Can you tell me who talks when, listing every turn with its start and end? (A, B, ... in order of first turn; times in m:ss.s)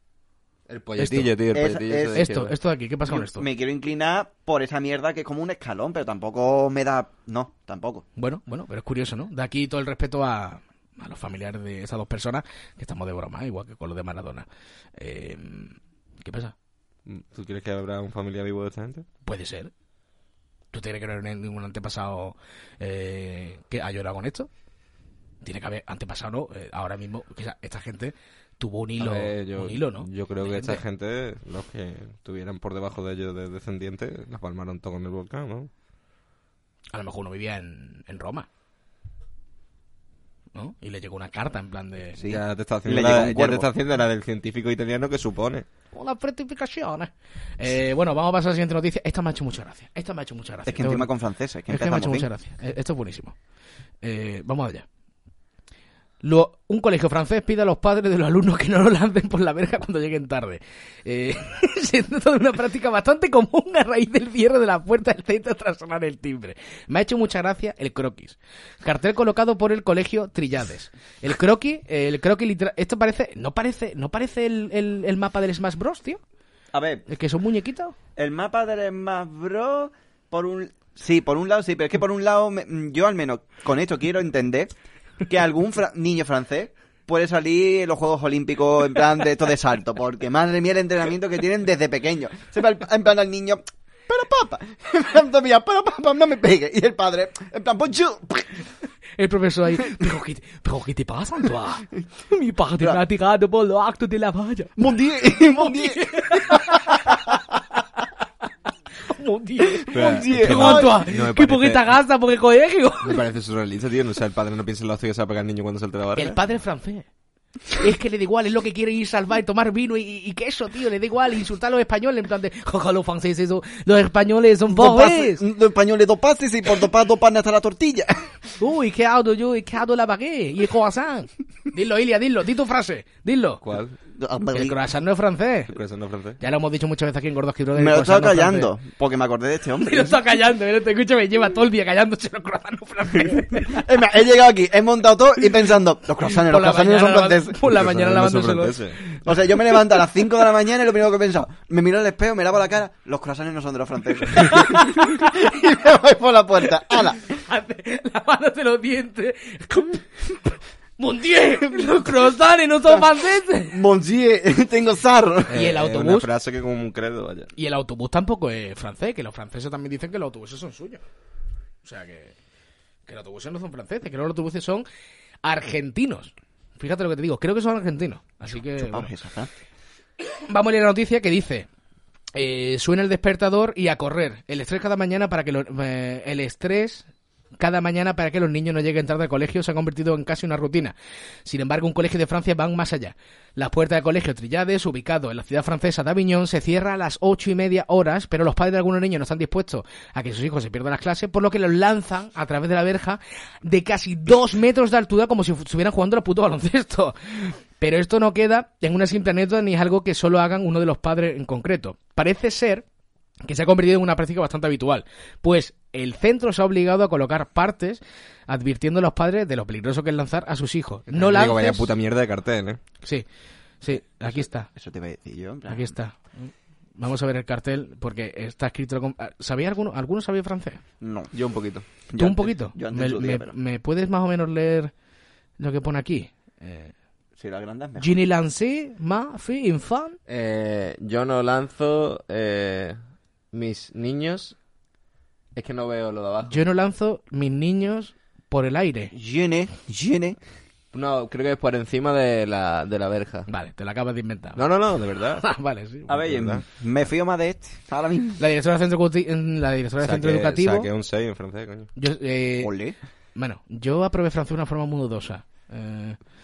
0:00.7-0:02.5 A
0:01.0-0:01.3 B
0:01.5-0:02.3 C
0:02.2-0:03.5 B
0:03.1-0:08.0 C
0:08.2-0:14.4 B
0:15.0-0:16.5 B
0:17.1-0:19.1 A
0:19.2-0:19.7 B
0:20.7-0:24.5 B
0:25.4-0:30.8 B
0:29.0-0:35.7 A
0:36.9-0:38.5 B
0:40.5-0:42.2 B
0:42.2-0:43.7 C
0:42.3-0:45.6 A
0:45.9-0:51.1 B
0:50.7-0:52.3 C
0:51.7-0:53.4 B
0:54.0-0:54.8 B
0:56.2-1:16.2 B
1:16.7-1:17.1 C
1:17.1-1:18.0 B
1:18.2-1:24.7 C
1:25.3-1:38.5 C
1:39.2-1:44.8 B
1:44.8-1:47.2 C
1:45.6-1:47.4 B
1:49.0-1:53.2 B
1:49.8-1:51.0 C
1:49.9-1:51.9 A
1:53.0-1:56.4 A
1:56.2-1:57.1 B
1:57.7-2:05.4 B
2:04.7-2:08.5 C
2:08.6-2:13.6 B
2:13.6-2:14.0 A
2:14.2-2:14.8 C
2:14.5-2:15.7 B
2:15.7-2:16.4 A
2:16.4-2:18.7 B
2:17.8-2:20.2 C
2:19.8-2:23.9 B
2:23.6-2:27.6 C
2:26.4-2:29.2 B
2:27.7-2:29.0 A
2:29.2-2:37.2 C
2:34.4-2:35.5 B
2:37.2-2:40.2 B
2:41.0-2:43.8 B
2:43.7-2:45.6 C
2:45.5-2:46.3 B
2:45.5-2:47.5 A
2:47.6-2:51.0 B
2:51.8-2:52.4 B
2:53.1-2:54.8 B
2:55.4-2:59.1 B
2:58.8-2:59.5 C
3:00.3-3:01.7 B
3:02.4-3:07.1 B
3:07.6-3:32.8 B
3:33.4-3:41.9 B
3:41.1-3:42.8 A
3:43.8-3:44.7 B
3:44.8-3:45.9 C
3:45.7-3:50.8 B
3:51.0-3:51.3 C
3:51.3-3:51.8 A
3:52.1-3:53.5 C
3:52.2-3:54.9 B
3:55.6-3:56.9 B
3:57.4-3:58.2 C
3:58.0-4:00.2 B
4:00.3-4:03.0 A
4:03.5-4:04.6 A
4:05.6-4:06.6 A
4:06.5-4:09.1 B
4:09.1-4:10.4 C
4:10.9-4:13.5 A
4:13.5-4:14.6 B
4:14.6-4:15.4 A
4:15.4-4:16.1 B
4:16.1-4:18.4 C
4:16.1-4:16.6 A
4:18.4-4:20.9 B
4:20.0-4:21.9 A
4:22.0-4:22.7 B
4:22.6-4:23.0 C
4:23.4-4:26.2 B